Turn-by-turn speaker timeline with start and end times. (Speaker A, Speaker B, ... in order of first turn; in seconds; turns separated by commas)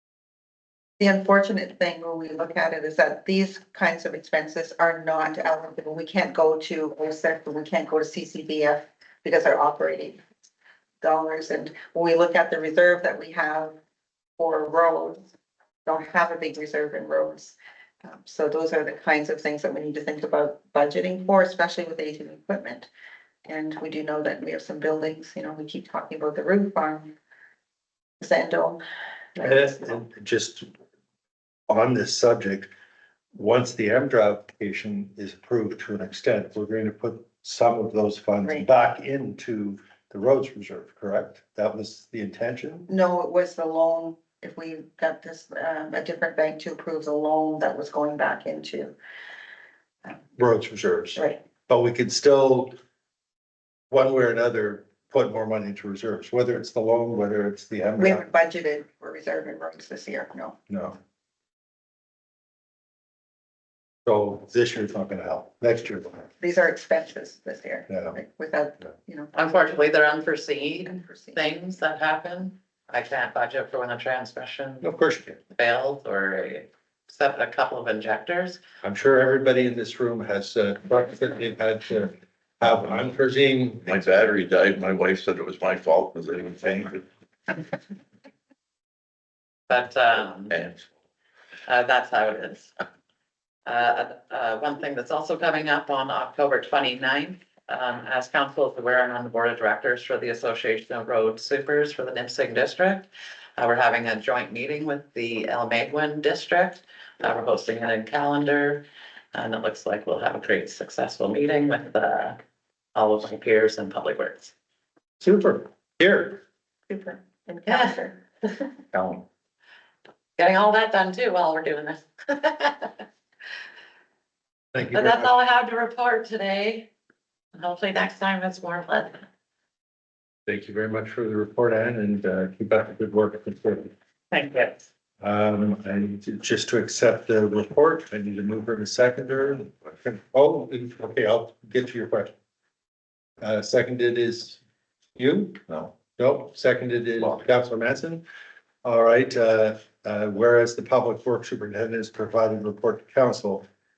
Speaker A: 1.0-10.2, Speaker A: 11.0-13.8, Speaker A: 14.4-15.3, Speaker A: 15.8-22.9, Speaker A: 23.4-27.1, Speaker A: 28.2-28.8, Speaker A: 29.3-29.8, Speaker B: 29.4-30.7, Speaker B: 31.7-32.7, Speaker B: 33.3-42.9, Speaker A: 42.9-48.9, Speaker B: 50.4-52.7, Speaker B: 53.9-58.2, Speaker A: 58.0-60.5, Speaker B: 60.7-61.0, Speaker B: 64.0-66.3, Speaker A: 66.4-69.3, Speaker B: 67.9-68.2, Speaker C: 69.3-74.9, Speaker A: 70.8-71.4, Speaker B: 74.8-75.4, Speaker C: 75.5-78.6, Speaker B: 78.8-84.0, Speaker D: 83.9-87.0, Speaker C: 89.7-90.5, Speaker D: 90.5-90.8, Speaker C: 91.7-92.7, Speaker C: 93.7-112.4, Speaker C: 112.9-114.5, Speaker B: 115.2-116.4, Speaker A: 116.9-118.2, Speaker C: 117.7-118.0, Speaker D: 118.9-119.2, Speaker C: 120.4-123.0, Speaker B: 124.7-125.3, Speaker C: 124.9-126.9, Speaker C: 127.5-129.2, Speaker B: 130.5-133.9, Speaker C: 134.3-134.9, Speaker B: 135.2-142.3, Speaker B: 143.4-144.6, Speaker B: 145.2-145.6, Speaker D: 145.7-145.9, Speaker B: 146.2-148.2, Speaker B: 148.8-153.6